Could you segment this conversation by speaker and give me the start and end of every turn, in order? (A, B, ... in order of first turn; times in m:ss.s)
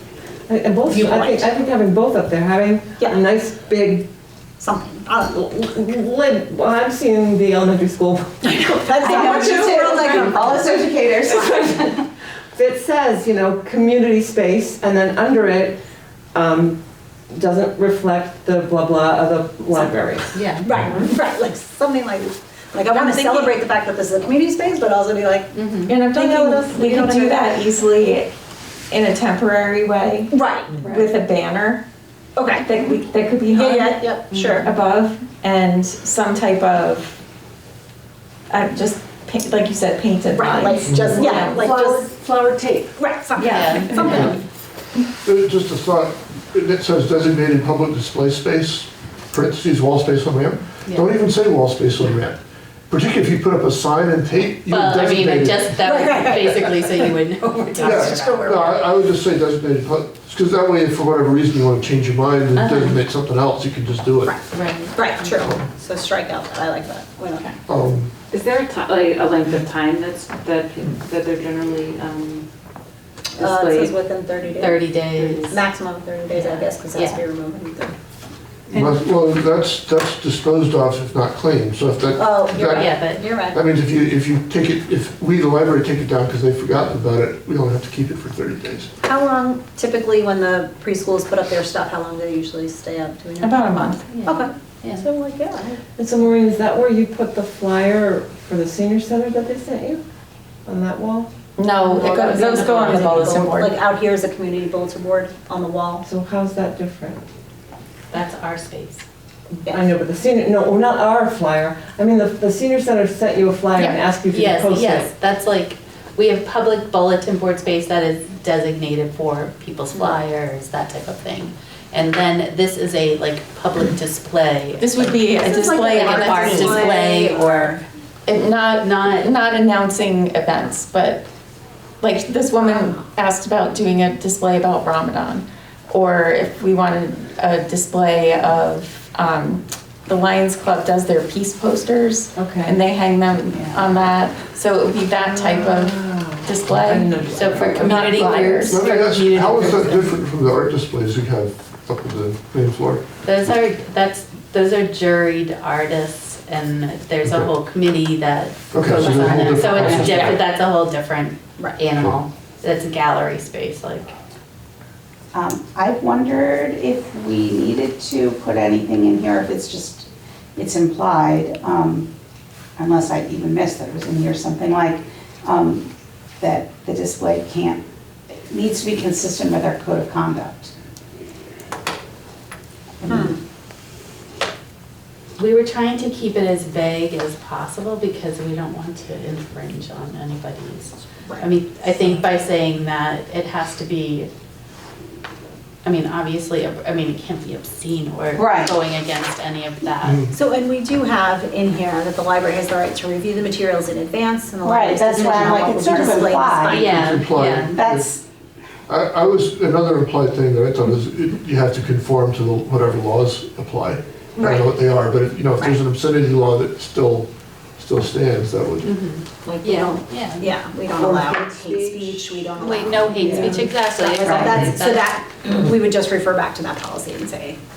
0:00.5-0:04.1 A
0:00.9-0:01.5 B
0:04.6-0:05.4 B
0:05.3-0:09.7 A
0:08.4-0:10.9 B
0:09.0-0:11.9 C
0:09.2-0:10.5 D
0:11.1-0:11.8 D
0:12.5-0:15.8 A
0:16.3-0:16.8 A
0:17.3-0:20.4 A
0:20.3-0:20.7 E
0:20.6-0:27.4 B
0:20.8-0:21.1 D
0:22.9-0:23.5 E
0:25.5-0:26.0 E
0:25.9-0:28.3 D
0:28.9-0:31.8 D
0:30.3-0:31.1 B
0:32.4-0:32.7 B
0:32.6-0:37.2 D
0:33.5-0:34.7 B
0:34.3-0:34.7 E
0:38.5-0:41.7 D
0:40.3-0:42.1 B
0:40.9-0:41.2 F
0:41.1-0:42.9 A
0:43.0-0:44.4 B
0:43.4-0:44.4 E
0:43.6-0:44.2 D
0:44.0-0:44.4 F
0:45.2-0:55.8 F
0:50.9-0:51.1 E
0:54.7-0:58.8 E
0:55.8-0:57.1 B
0:57.7-0:58.8 B
0:57.8-1:04.3 F
1:02.6-1:03.0 D
1:04.5-1:05.0 D
1:04.7-1:05.2 E
1:04.9-1:07.5 B
1:07.7-1:08.1 F
1:08.3-1:12.5 G
1:13.4-1:13.9 G
1:13.4-1:14.9 B
1:14.6-1:15.6 E
1:15.1-1:15.6 G
1:15.5-1:18.0 B
1:16.3-1:17.2 E
1:18.7-1:23.0 F
1:22.2-1:23.6 B
1:22.5-1:23.2 E
1:23.5-1:28.9 F
1:29.0-1:35.8 B
1:33.4-1:34.2 D
1:34.1-1:35.0 E
1:36.0-1:40.0 A
1:40.7-1:41.3 A
1:41.6-1:43.8 D
1:41.8-1:43.6 E
1:42.2-1:46.0 B
1:46.0-1:47.2 A
1:48.1-1:49.0 E
1:49.6-1:49.9 B
1:49.7-1:55.1 A
1:54.3-2:05.2 E
2:04.8-2:07.1 D
2:05.3-2:07.8 B
2:05.8-2:07.8 E
2:08.2-2:11.2 D
2:08.6-2:09.4 E
2:12.0-2:28.8 D
2:22.3-2:22.8 A
2:23.5-2:24.0 C
2:25.1-2:28.6 A
2:27.3-2:30.1 E
2:28.0-2:33.1 F
2:29.6-2:30.0 A
2:33.2-2:44.1 E
2:37.2-2:37.5 F
2:38.7-2:40.4 F
2:39.3-2:40.1 C
2:41.9-2:42.2 F
2:45.3-2:52.1 C
2:52.8-2:57.8 C
2:58.4-3:00.7 C
3:03.0-3:03.4 C
3:03.0-3:03.4 B
3:05.4-3:14.3 E
3:11.2-3:12.2 B
3:15.8-3:20.3 E
3:18.3-3:18.8 C
3:20.0-3:20.3 F
3:20.3-3:27.2 B
3:24.6-3:26.8 C
3:25.2-3:27.8 E
3:26.8-3:28.1 F
3:27.7-3:28.2 C
3:28.9-3:39.0 F
3:34.4-3:34.7 B
3:38.8-3:40.5 E
3:39.4-3:47.6 B
3:41.4-3:42.1 G
3:42.6-3:45.2 E
3:44.2-3:44.7 C